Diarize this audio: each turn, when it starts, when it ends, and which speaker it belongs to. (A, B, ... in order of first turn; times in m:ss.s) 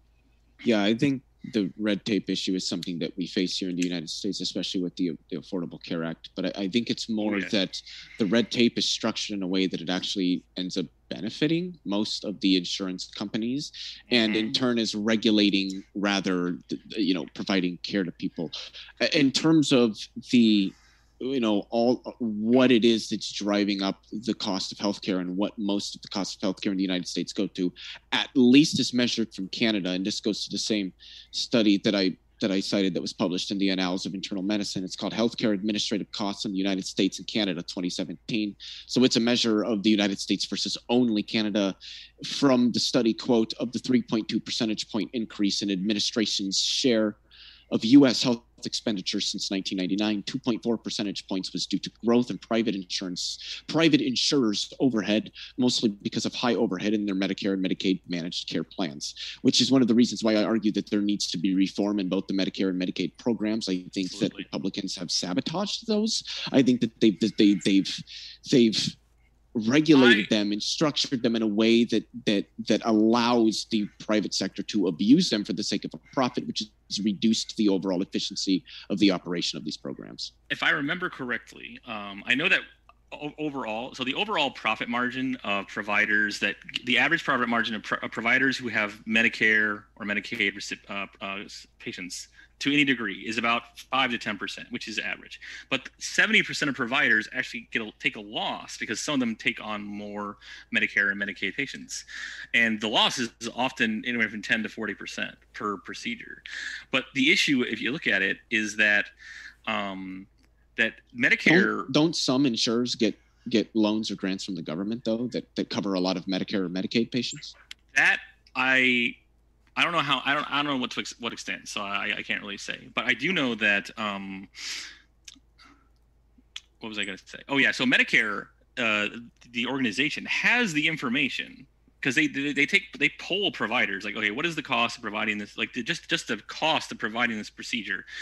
0:00.6-0:47.2 A
0:07.2-0:07.5 B
0:14.1-0:14.6 B
0:47.7-1:09.0 A
1:04.0-1:04.5 B
1:09.5-1:20.3 A
1:09.9-1:10.3 B
1:20.5-1:49.1 B
1:49.7-1:51.9 B
1:51.4-1:57.5 A
1:57.9-1:59.2 B
1:59.8-2:04.8 B
2:06.8-2:18.0 B